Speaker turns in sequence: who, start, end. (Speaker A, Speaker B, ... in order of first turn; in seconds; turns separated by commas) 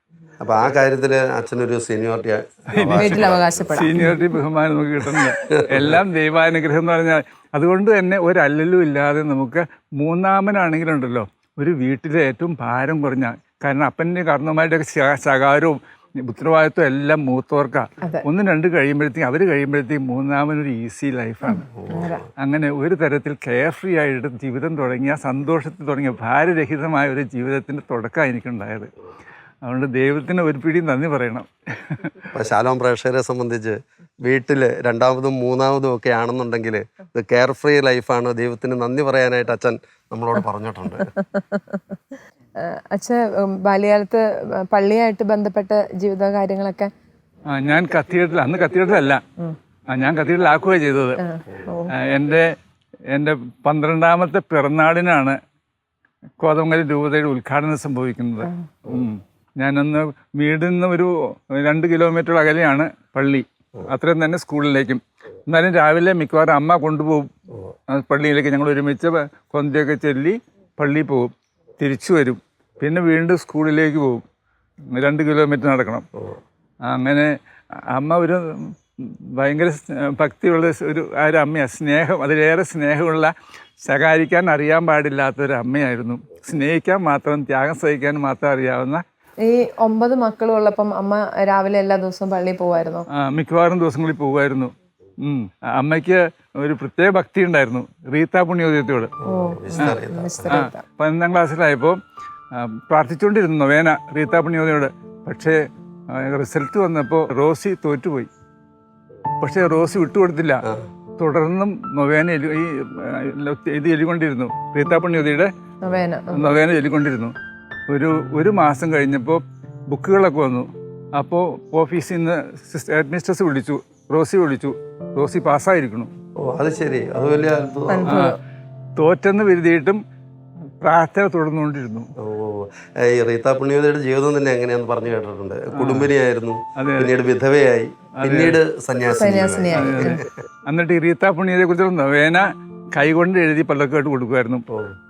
Speaker A: 0.4-3.9, Speaker B: 2.7-21.6, Speaker C: 3.0-4.2, Speaker A: 5.4-6.0, Speaker C: 21.4-22.2, Speaker A: 21.8-22.2, Speaker B: 22.4-28.9, Speaker B: 29.6-32.1, Speaker A: 32.3-41.1, Speaker C: 41.0-42.0, Speaker C: 42.6-46.9, Speaker B: 47.5-49.2, Speaker B: 49.9-51.2, Speaker C: 51.2-51.9, Speaker B: 51.9-52.5, Speaker B: 53.1-55.4, Speaker B: 56.4-67.3, Speaker B: 67.9-74.2, Speaker B: 74.9-76.0, Speaker B: 76.9-77.3, Speaker B: 77.9-89.0, Speaker C: 89.4-93.0, Speaker B: 93.1-99.1, Speaker A: 99.2-100.6, Speaker C: 99.2-100.8, Speaker B: 100.5-102.0, Speaker B: 102.5-108.3, Speaker B: 109.4-110.6, Speaker B: 111.2-115.5, Speaker C: 115.8-116.4, Speaker B: 116.3-117.3, Speaker B: 117.9-126.1, Speaker A: 126.4-128.2, Speaker C: 127.9-128.3, Speaker B: 128.1-128.3, Speaker B: 129.0-130.0, Speaker B: 130.8-132.1, Speaker A: 132.2-140.4, Speaker B: 135.7-136.1, Speaker B: 136.8-137.1, Speaker B: 138.2-138.6, Speaker C: 139.2-140.2, Speaker B: 139.7-144.6, Speaker A: 144.7-144.9